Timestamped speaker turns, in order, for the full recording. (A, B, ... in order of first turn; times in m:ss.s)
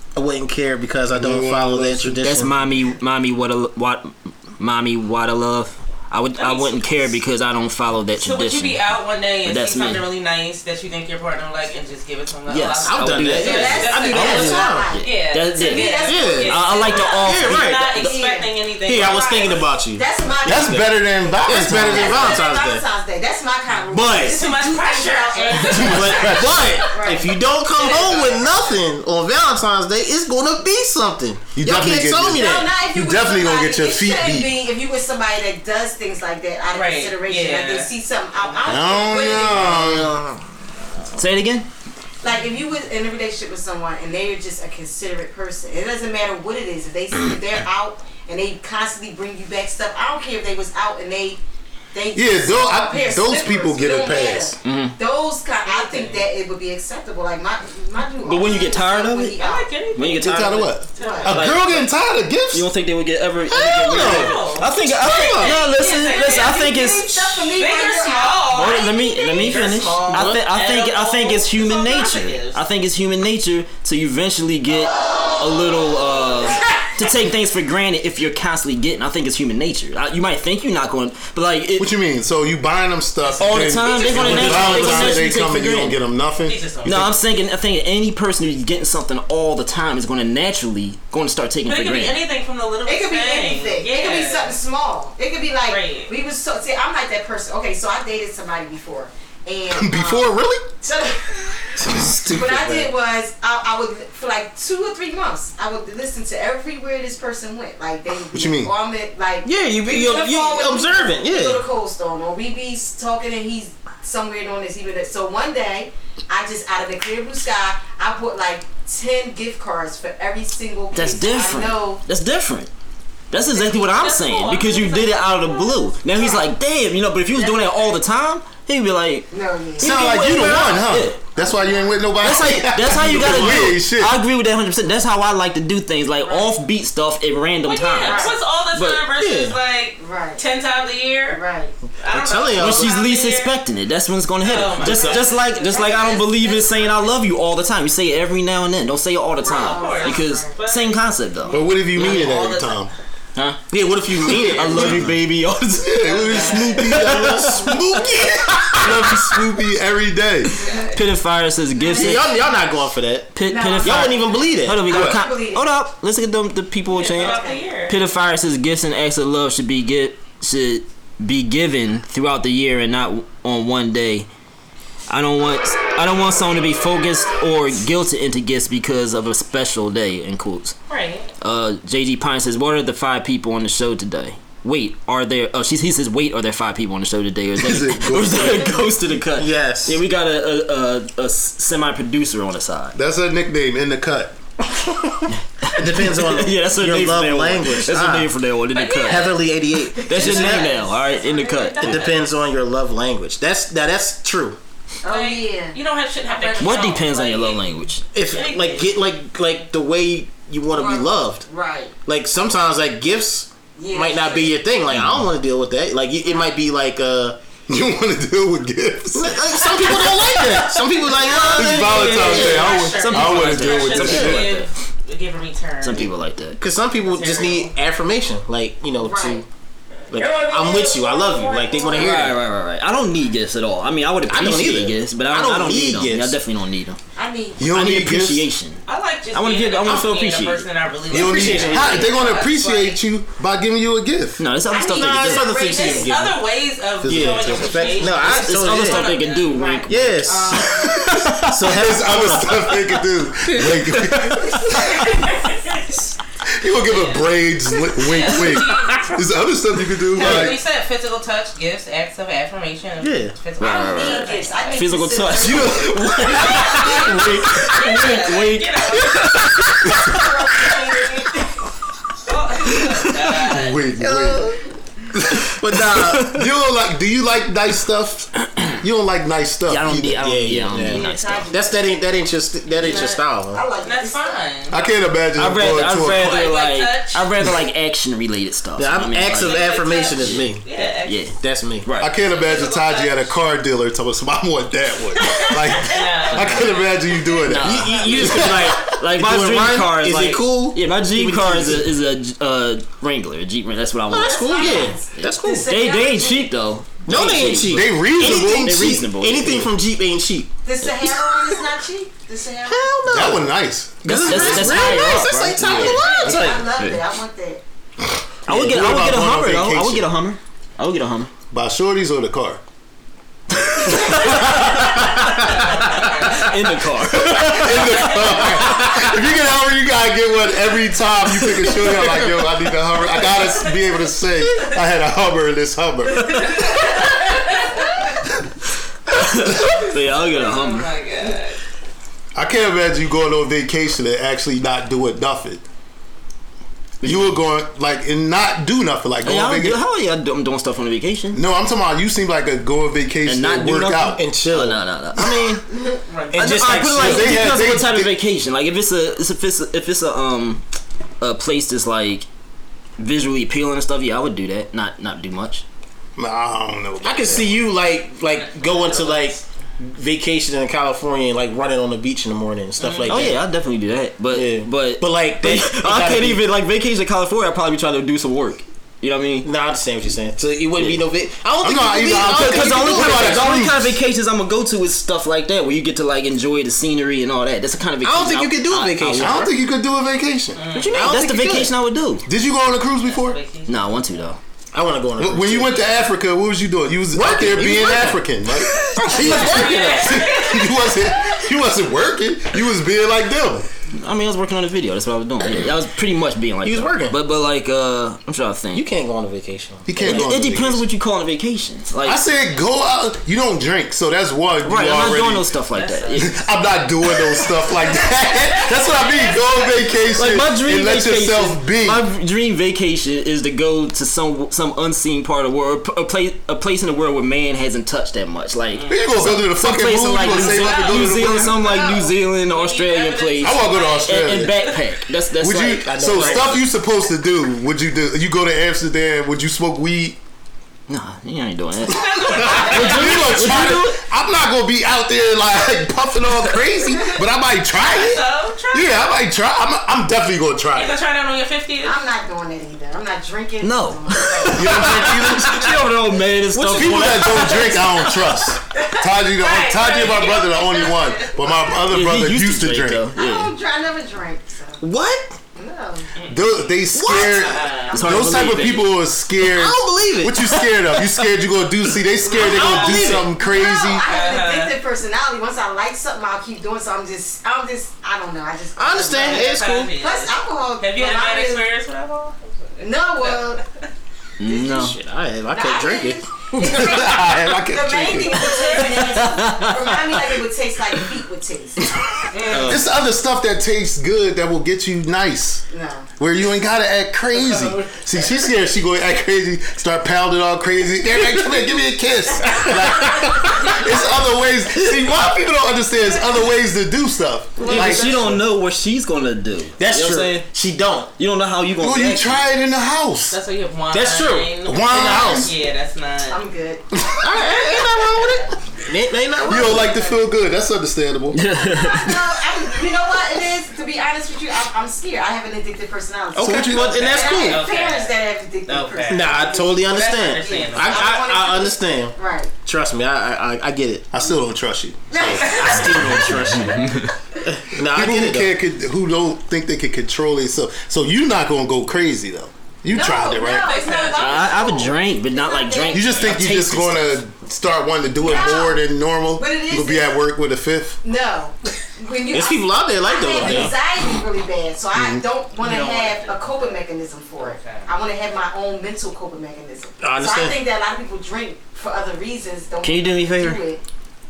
0:00.1-0:02.5 A
0:01.1-0:02.2 B
0:02.2-0:08.8 C
0:06.4-0:07.0 D
0:08.2-0:19.6 D
0:09.4-0:10.0 C
0:12.5-0:18.2 C
0:12.8-0:14.9 A
0:13.3-0:17.1 E
0:16.1-0:16.6 A
0:17.2-0:17.9 A
0:18.0-0:20.9 E
0:18.8-0:22.8 A
0:20.5-0:22.4 B
0:21.7-0:27.3 E
0:23.9-0:24.4 A
0:24.2-0:27.0 D
0:25.7-0:26.6 B
0:25.8-0:32.7 A
0:27.6-0:28.8 D
0:31.6-0:34.5 B
0:32.3-0:39.8 E
0:36.7-0:39.0 D
0:38.6-0:40.1 B
0:39.6-0:40.4 A
0:41.1-0:41.7 C
0:42.2-0:51.4 E
0:51.9-0:59.7 E
0:52.1-0:54.6 B
0:54.6-0:55.0 C
0:55.6-0:56.3 D
0:58.2-0:59.4 C
0:59.4-1:01.3 D
0:59.9-1:01.9 C
1:00.2-1:02.7 B
1:01.0-1:01.3 E
1:02.5-1:07.5 C
1:03.5-1:05.6 A
1:03.9-1:04.8 D
1:05.3-1:06.6 D
1:06.0-1:08.5 E
1:07.5-1:12.6 D
1:08.5-1:21.9 C
1:10.1-1:10.4 A
1:21.8-1:27.1 B
1:23.4-1:26.0 C
1:23.8-1:25.1 D
1:24.2-1:24.7 A
1:26.4-1:27.1 D
1:26.8-1:32.2 C
1:31.6-1:34.5 D
1:32.8-2:02.0 E
1:35.6-1:36.1 D
1:39.7-1:40.7 B
1:41.8-1:42.9 A
1:48.3-1:48.7 B
1:49.4-1:51.6 A
2:00.9-2:02.7 C
2:03.3-2:11.2 C
2:03.5-2:05.7 D
2:05.8-2:06.5 E
2:07.4-2:07.7 E
2:09.3-2:10.0 E
2:09.8-2:14.2 B
2:11.4-2:12.0 E
2:12.2-2:19.0 C
2:16.2-2:16.6 E
2:17.6-2:21.4 D
2:18.0-2:18.4 E
2:19.2-2:19.6 A
2:20.0-2:20.4 E
2:21.3-2:21.7 E
2:22.0-2:23.5 D
2:22.1-2:22.9 A
2:22.5-2:32.2 C
2:24.4-2:26.8 D
2:24.8-2:25.2 A
2:25.8-2:27.0 E
2:29.4-2:30.6 E
2:29.4-2:32.8 D
2:31.5-2:32.9 B
2:33.3-2:37.5 C
2:33.7-2:35.1 A
2:34.7-2:35.1 B
2:35.8-2:40.5 B
2:36.0-2:36.9 D
2:36.8-2:38.8 A
2:40.6-2:41.0 E
2:40.6-2:40.9 D
2:40.9-2:42.2 C
2:41.8-2:42.4 E
2:41.8-2:44.8 A
2:43.3-2:54.3 C
2:43.4-2:45.6 E
2:44.8-2:45.2 B
2:46.9-2:48.0 D
2:47.0-2:47.6 E
2:55.1-3:00.8 C
3:00.9-3:01.3 D
3:01.4-3:13.0 C
3:07.6-3:08.7 B
3:09.4-3:10.0 A
3:12.9-3:14.4 B
3:15.6-3:19.4 C
3:15.8-3:18.3 A
3:18.7-3:19.4 D
3:19.0-3:20.7 A
3:19.9-3:21.6 E
3:20.0-3:22.2 C
3:20.1-3:22.3 D
3:21.8-3:24.6 A
3:25.0-3:27.0 E
3:25.0-3:27.7 D
3:26.6-3:28.0 C
3:28.1-3:31.4 A
3:28.2-3:29.0 D
3:30.7-3:31.9 E
3:32.0-3:37.4 A
3:33.7-3:34.6 E
3:37.7-3:40.3 B
3:39.1-3:42.6 A
3:41.1-3:41.7 E
3:41.2-3:46.1 D
3:41.5-3:44.6 B
3:41.8-3:44.7 C
3:44.0-3:44.3 A
3:45.8-3:46.6 C
3:46.6-3:49.5 A
3:47.0-3:47.7 D
3:49.0-3:49.4 E
3:50.1-3:52.4 A
3:50.2-3:52.3 E
3:50.2-3:51.9 D
3:51.9-3:57.0 C
3:54.3-3:56.4 A
3:57.2-3:57.6 E
3:57.6-3:58.5 B
3:57.7-3:58.8 C
3:58.8-4:03.0 D
3:59.3-4:00.7 C
4:01.1-4:04.4 B
4:01.1-4:02.1 A
4:04.4-4:05.5 C
4:04.7-4:06.2 E
4:04.8-4:06.4 A
4:05.6-4:09.7 D
4:07.0-4:09.1 A
4:07.4-4:08.0 E
4:08.1-4:11.6 C
4:09.5-4:10.9 E
4:09.9-4:10.7 A
4:10.2-4:10.8 D
4:11.1-4:15.1 B
4:11.4-4:12.7 A
4:14.7-4:15.0 E
4:15.0-4:15.5 D
4:16.5-4:20.6 B
4:16.8-4:17.3 D
4:17.9-4:19.3 D
4:20.1-4:25.0 D
4:20.2-4:20.5 A
4:23.0-4:23.4 A
4:23.6-4:30.0 C
4:23.6-4:26.9 E
4:25.4-4:26.4 B
4:26.3-4:29.5 D
4:26.6-4:29.0 A
4:30.1-4:31.3 E
4:32.2-4:33.8 D
4:32.8-4:33.6 C
4:33.5-4:34.6 B
4:34.0-4:34.6 A
4:35.1-4:35.5 B
4:35.4-4:36.4 A
4:35.8-4:36.5 C
4:36.1-4:40.2 B
4:39.7-4:41.5 C
4:40.2-4:43.6 A
4:40.8-4:41.8 E
4:42.7-4:44.4 E
4:42.8-4:43.2 D
4:43.8-4:44.8 D
4:44.7-4:46.4 B
4:45.4-4:50.5 C
4:46.0-4:47.3 D
4:48.8-4:50.6 A
4:49.3-4:51.3 D
4:51.0-4:52.1 C
4:51.3-4:51.9 A
4:52.0-4:58.8 B
4:52.2-4:53.3 D
4:55.2-4:58.0 D
4:56.3-4:56.6 C
4:57.5-5:09.7 C
4:57.6-5:01.9 A
5:04.1-5:05.7 A
5:04.1-5:06.5 E
5:07.0-5:11.6 A
5:07.6-5:09.0 B
5:10.6-5:13.0 E
5:12.6-5:16.7 A
5:13.1-5:14.9 B
5:14.0-5:16.0 C
5:15.6-5:15.9 B
5:15.6-5:17.6 E
5:18.4-5:20.1 B
5:18.4-5:21.3 C
5:21.5-5:22.6 B
5:23.6-5:24.7 C
5:23.9-5:24.7 B
5:25.1-5:29.1 A
5:25.5-5:26.6 D
5:27.1-5:37.0 B
5:27.2-5:27.9 C
5:28.0-5:28.3 D
5:31.4-5:32.1 C
5:33.3-5:33.8 D
5:36.3-5:38.0 D
5:39.1-5:40.9 C
5:40.1-5:41.6 D
5:42.3-5:45.6 B
5:47.0-5:47.3 C
5:47.0-5:49.8 B
5:49.2-5:51.4 C
5:51.3-5:54.2 B
5:53.2-5:55.6 C
5:54.2-5:55.6 A
5:56.0-5:56.4 D
5:56.3-5:57.4 A
5:56.4-6:00.6 C
5:57.0-5:58.1 B
6:01.2-6:02.2 C
6:03.0-6:05.6 C
6:06.2-6:07.6 B
6:07.0-6:13.4 A
6:08.3-6:09.4 D
6:12.8-6:13.2 D
6:13.1-6:19.5 C
6:14.3-6:16.4 A
6:19.4-6:23.6 A
6:20.8-6:21.0 C
6:21.6-6:24.0 B
6:22.2-6:29.5 C
6:28.0-6:29.5 A
6:29.2-6:30.6 B
6:30.5-6:31.1 D
6:30.7-6:32.3 C
6:30.9-6:31.7 A
6:32.2-6:33.4 B
6:33.0-6:34.4 D
6:33.7-6:34.4 C
6:34.7-6:35.9 A
6:35.2-6:43.7 B
6:37.1-6:38.2 A
6:38.9-6:40.2 A
6:39.0-6:41.3 D
6:43.9-6:48.8 C
6:46.6-6:47.2 A
6:48.7-6:50.3 A
6:49.8-6:50.8 B
6:50.0-6:52.2 C
6:52.0-6:55.5 B
6:54.6-6:56.3 C
6:55.7-6:56.2 D
6:56.2-7:02.0 B
6:58.8-6:59.4 D
7:00.1-7:16.6 C
7:08.7-7:09.2 D
7:08.9-7:11.7 B
7:10.3-7:14.8 D
7:13.4-7:14.5 B
7:15.4-7:20.2 B
7:15.8-7:16.6 A
7:20.9-7:24.0 C
7:21.9-7:23.5 D
7:22.4-7:31.0 B
7:27.8-7:29.1 D
7:30.7-7:32.0 D
7:31.8-7:34.6 E
7:33.6-7:38.4 C
7:34.3-7:35.0 D
7:34.5-7:35.8 B
7:36.5-7:37.5 A
7:36.7-7:43.0 B
7:39.2-7:41.6 D
7:41.9-7:43.5 C
7:43.2-7:44.8 E
7:44.8-7:45.3 C
7:45.6-7:46.1 E
7:46.1-7:48.1 D
7:46.3-7:54.0 B
7:46.9-7:47.5 A
7:47.7-7:48.6 E
7:47.9-7:48.9 C
7:49.4-7:51.0 A
7:52.2-7:54.8 D
7:52.4-7:53.3 A
7:53.3-8:01.7 E
7:58.8-7:59.9 A
7:59.1-8:03.6 D
8:02.8-8:03.6 E
8:04.4-8:05.0 C
8:04.4-8:06.2 A
8:05.5-8:11.9 E
8:06.6-8:08.4 B
8:08.6-8:09.8 C
8:12.3-8:12.8 D
8:12.5-8:12.9 A
8:12.6-8:15.6 B
8:15.7-8:16.1 E
8:16.2-8:28.3 B
8:21.2-8:21.6 A
8:22.4-8:23.7 A
8:27.6-8:28.4 A
8:27.6-8:30.4 C
8:29.8-8:31.1 A
8:31.2-8:32.4 C
8:31.8-8:33.4 B
8:33.3-8:36.4 D
8:33.9-8:35.5 A
8:34.6-8:35.5 B
8:36.3-8:36.8 E
8:36.9-8:37.2 B
8:37.2-8:40.0 A
8:37.8-8:38.4 D
8:39.4-8:41.4 B
8:39.6-8:40.1 E
8:41.3-8:42.2 C
8:41.7-8:52.5 E
8:46.3-8:47.6 A
8:46.4-8:47.0 B
8:46.6-8:51.2 D
8:49.1-8:54.1 A
8:54.1-8:56.4 B
8:55.1-8:56.3 E
8:55.5-8:58.5 A
8:56.4-8:57.1 C
8:57.8-9:03.7 B
9:02.9-9:06.2 E
9:03.5-9:04.8 D
9:04.2-9:07.2 C
9:05.9-9:11.0 B
9:08.2-9:08.8 E
9:09.4-9:10.1 E
9:11.0-9:23.8 E
9:12.3-9:13.7 A
9:14.9-9:15.2 B
9:15.6-9:17.9 D
9:20.0-9:20.6 A
9:22.8-9:23.6 C